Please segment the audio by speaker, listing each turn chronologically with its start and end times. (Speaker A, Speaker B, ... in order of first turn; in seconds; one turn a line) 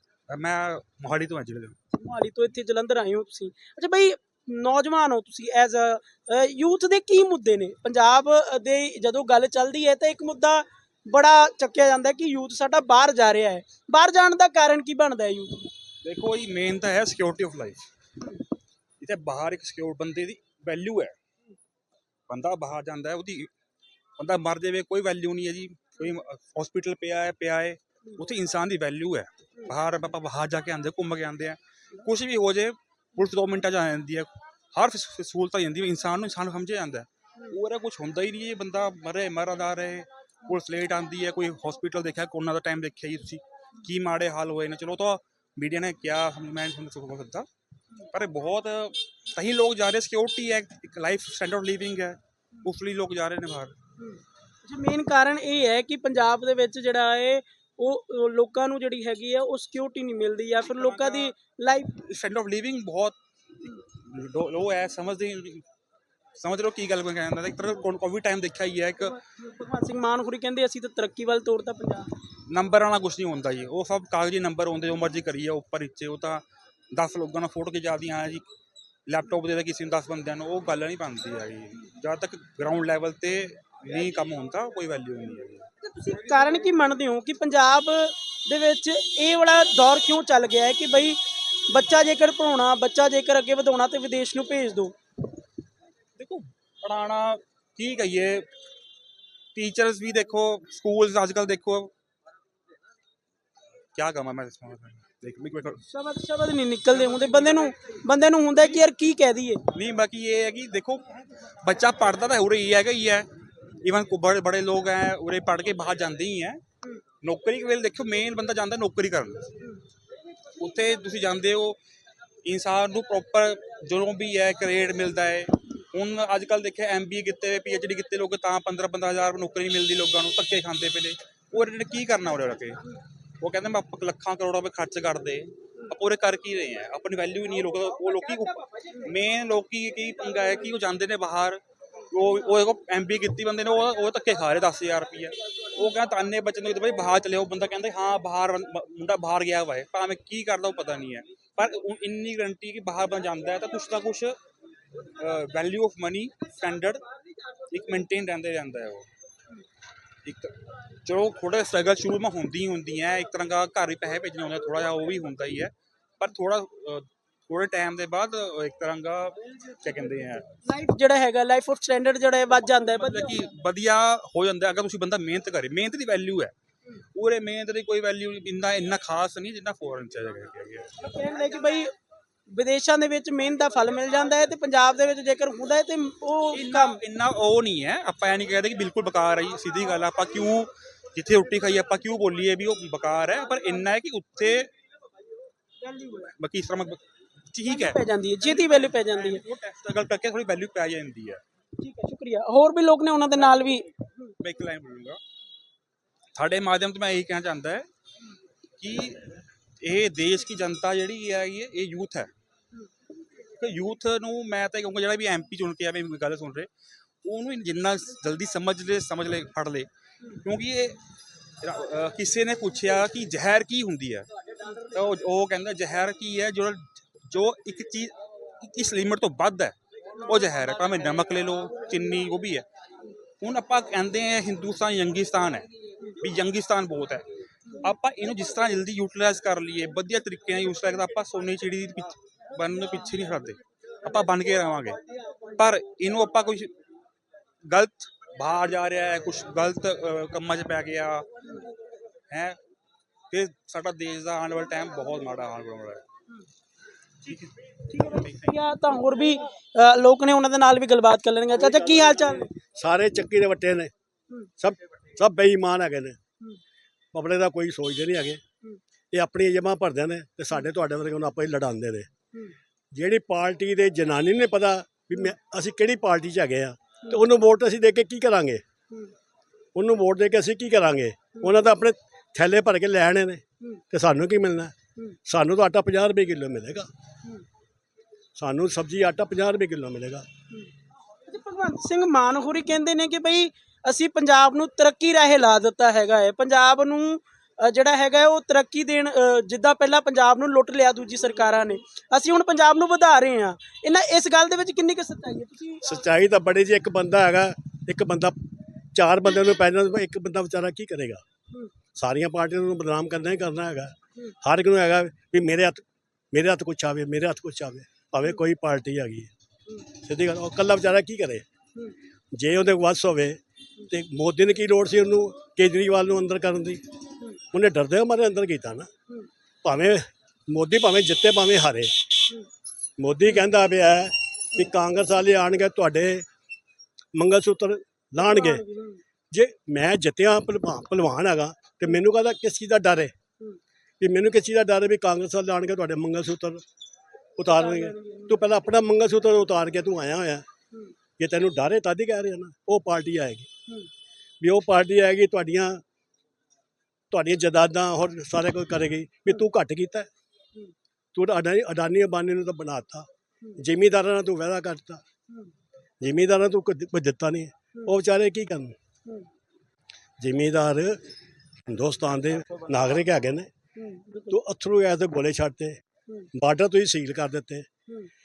Speaker A: 0.3-1.8
Speaker B: 1.9-15.7
Speaker A: 16.0-17.8
Speaker A: 19.0-21.1
Speaker A: 22.3-23.5
Speaker A: 24.2-47.5
Speaker A: 48.1-53.8
Speaker B: 54.0-62.0
Speaker A: 60.7-61.3
Speaker A: 62.0-65.7
Speaker A: 66.4-69.2
Speaker B: 69.2-72.1
Speaker A: 72.5-78.5
Speaker A: 79.1-85.7
Speaker B: 85.8-95.0
Speaker A: 96.2-98.5
Speaker A: 99.5-101.9
Speaker A: 104.0-105.8
Speaker B: 105.9-109.6
Speaker A: 109.7-113.3
Speaker A: 113.8-116.6
Speaker A: 117.2-119.5
Speaker A: 120.6-121.8
Speaker A: 122.5-132.8
Speaker A: 133.4-154.4
Speaker A: 155.2-157.0
Speaker A: 157.7-159.1
Speaker A: 160.2-160.5
Speaker A: 161.1-170.5
Speaker B: 170.7-173.3
Speaker A: 172.9-176.5
Speaker A: 177.2-180.9
Speaker B: 181.0-181.9
Speaker B: 182.5-187.0
Speaker A: 186.5-194.7
Speaker B: 195.8-196.3
Speaker A: 196.4-198.0
Speaker B: 197.7-199.4
Speaker A: 198.6-201.4
Speaker B: 201.8-203.9
Speaker A: 204.4-205.2
Speaker A: 206.3-207.9
Speaker A: 208.8-212.3
Speaker A: 213.6-216.7
Speaker A: 217.2-219.9
Speaker A: 220.4-221.0
Speaker A: 221.6-232.7
Speaker A: 233.4-235.7
Speaker A: 236.2-237.2
Speaker A: 237.8-245.0
Speaker A: 245.6-246.7
Speaker A: 247.6-251.3
Speaker A: 252.3-252.6
Speaker A: 253.3-256.0
Speaker A: 257.2-258.5
Speaker B: 257.9-262.5
Speaker C: 261.6-263.9
Speaker C: 264.6-266.2
Speaker C: 267.1-268.4
Speaker C: 269.1-272.1
Speaker C: 272.9-278.6
Speaker C: 279.8-284.7
Speaker C: 285.3-286.9
Speaker C: 288.4-290.2
Speaker B: 291.3-305.8
Speaker C: 305.8-311.2
Speaker C: 311.9-319.3
Speaker C: 320.0-321.4
Speaker C: 322.4-326.8
Speaker C: 327.5-328.9
Speaker C: 329.6-332.4
Speaker C: 333.0-336.3
Speaker C: 337.2-338.6
Speaker B: 338.2-339.0
Speaker C: 339.3-343.1
Speaker C: 344.0-346.6
Speaker C: 347.4-350.4
Speaker B: 347.5-348.3
Speaker C: 351.2-353.5
Speaker C: 354.4-355.8
Speaker C: 357.1-360.1
Speaker C: 361.1-365.0
Speaker C: 366.0-368.8
Speaker C: 370.2-371.0
Speaker C: 371.7-373.5
Speaker B: 373.8-374.3
Speaker C: 374.3-375.8
Speaker C: 376.3-377.7